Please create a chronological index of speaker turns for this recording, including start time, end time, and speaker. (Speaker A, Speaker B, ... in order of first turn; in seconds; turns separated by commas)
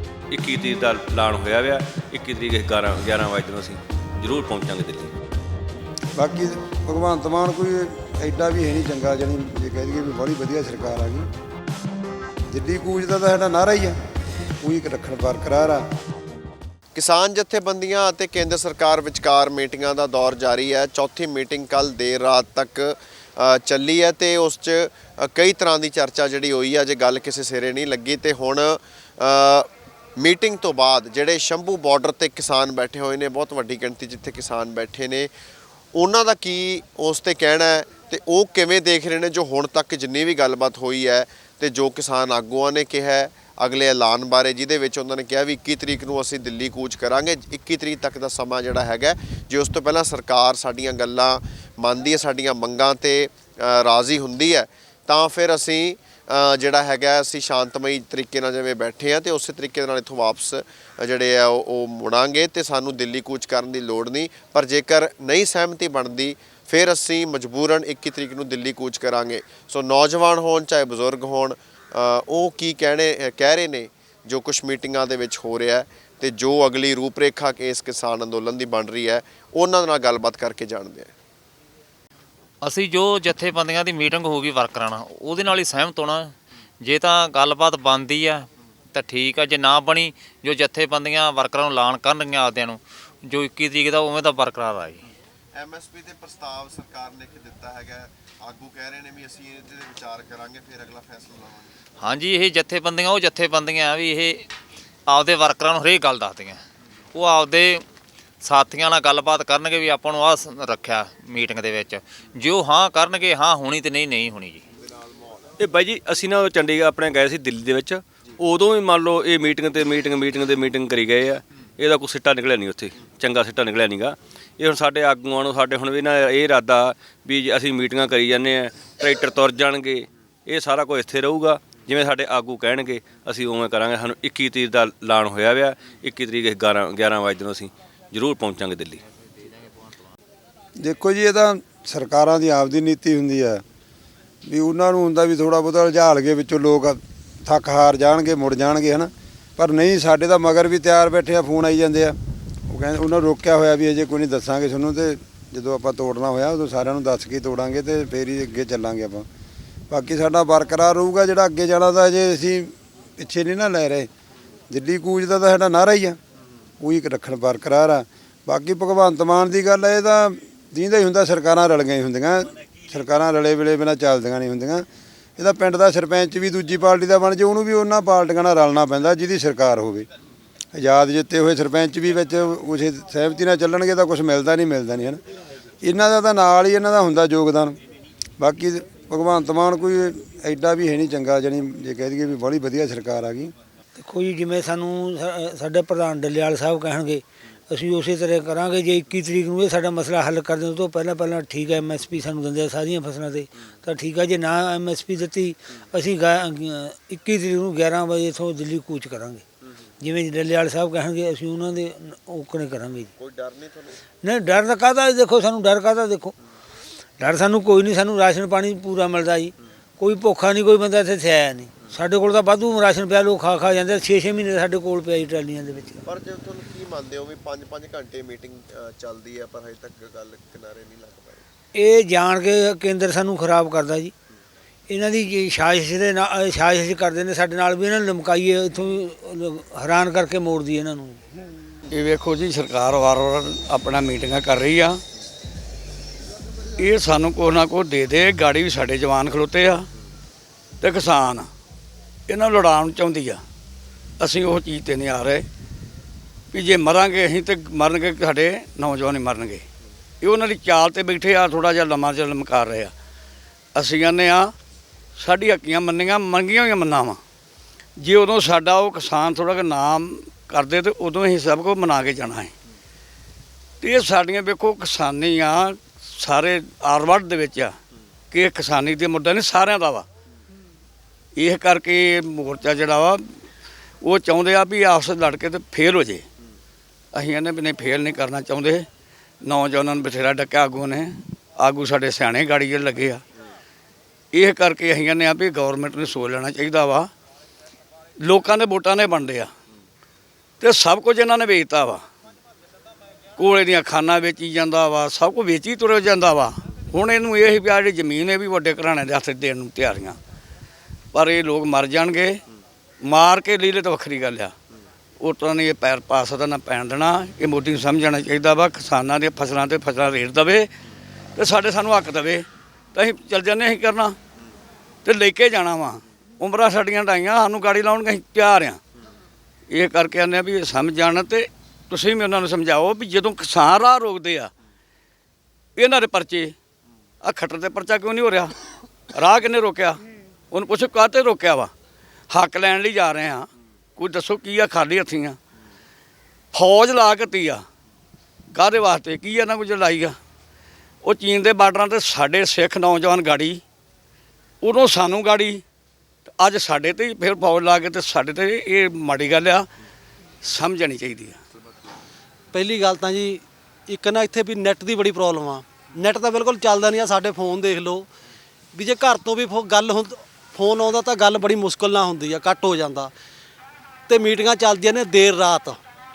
Speaker A: 0.3-5.1, Speaker B: 6.2-11.2, Speaker B: 12.5-13.9, Speaker B: 14.6-15.8, Speaker C: 16.9-35.3, Speaker C: 35.9-81.1, Speaker D: 82.6-95.0, Speaker C: 95.5-101.7, Speaker D: 102.0-104.4, Speaker D: 105.1-106.6, Speaker D: 107.1-107.8, Speaker D: 108.4-114.6, Speaker A: 115.6-139.0, Speaker B: 140.8-143.6, Speaker B: 144.5-152.2, Speaker B: 152.7-159.2, Speaker B: 159.9-164.1, Speaker B: 164.7-166.2, Speaker B: 166.8-174.8, Speaker B: 175.4-180.1, Speaker B: 180.7-185.2, Speaker B: 185.8-187.8, Speaker B: 188.4-193.5, Speaker E: 193.9-209.4, Speaker E: 210.0-213.1, Speaker C: 213.2-213.9, Speaker E: 214.2-216.3, Speaker E: 217.2-226.0, Speaker C: 226.0-231.4, Speaker E: 231.7-234.1, Speaker E: 234.9-241.2, Speaker F: 241.9-245.0, Speaker F: 246.8-249.9, Speaker F: 250.8-251.5, Speaker F: 252.3-253.4, Speaker F: 254.2-255.4, Speaker F: 256.5-259.6, Speaker F: 260.2-262.9, Speaker F: 263.8-264.5, Speaker F: 265.2-267.2, Speaker F: 268.0-272.5, Speaker F: 273.8-277.8, Speaker F: 278.3-280.1, Speaker F: 281.4-283.2, Speaker F: 284.0-286.2, Speaker F: 287.1-288.9, Speaker F: 289.4-293.2, Speaker F: 294.3-297.1, Speaker F: 298.2-299.5, Speaker F: 300.6-302.0, Speaker F: 303.4-310.2, Speaker F: 311.1-312.4, Speaker F: 313.0-314.5, Speaker F: 315.2-320.7, Speaker F: 321.4-324.2, Speaker F: 325.0-328.8, Speaker F: 329.7-334.5, Speaker F: 335.8-336.5, Speaker F: 337.2-338.5, Speaker F: 339.1-340.0, Speaker F: 340.5-341.7, Speaker F: 342.3-345.4, Speaker F: 346.5-347.6, Speaker F: 348.5-350.1, Speaker F: 351.0-353.6, Speaker F: 354.6-355.6, Speaker F: 356.4-359.7, Speaker F: 360.4-361.4, Speaker G: 362.5-368.1, Speaker G: 368.7-373.1, Speaker G: 374.1-375.8